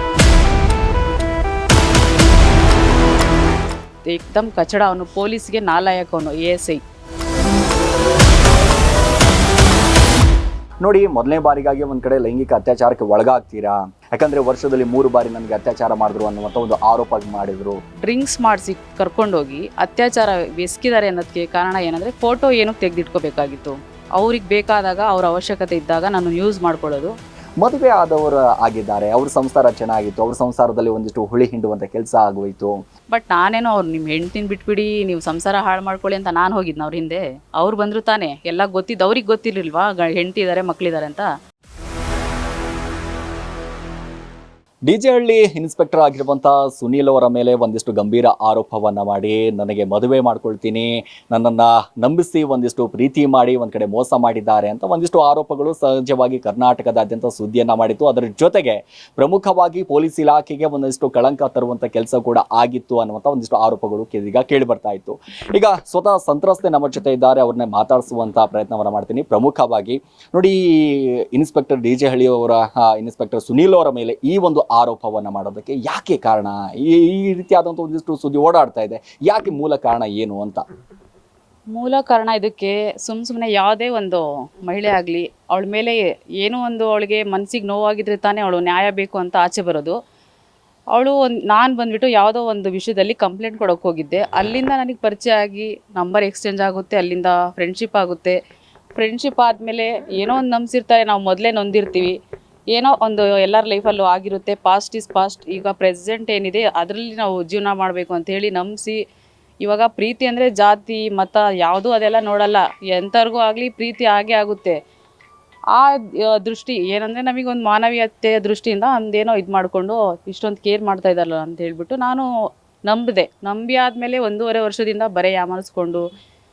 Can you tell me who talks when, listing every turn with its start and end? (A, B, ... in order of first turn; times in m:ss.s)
0:04.1-0:06.8 A
0:10.8-0:17.8 B
0:18.0-0:27.1 A
0:27.6-0:32.8 B
0:33.1-0:41.3 A
0:44.9-1:20.6 B
1:21.7-1:30.0 A
1:30.9-1:38.4 A
1:39.0-1:42.1 A
1:42.7-1:49.0 A
1:49.6-1:54.8 A
1:55.7-2:02.3 A
2:02.9-2:06.0 A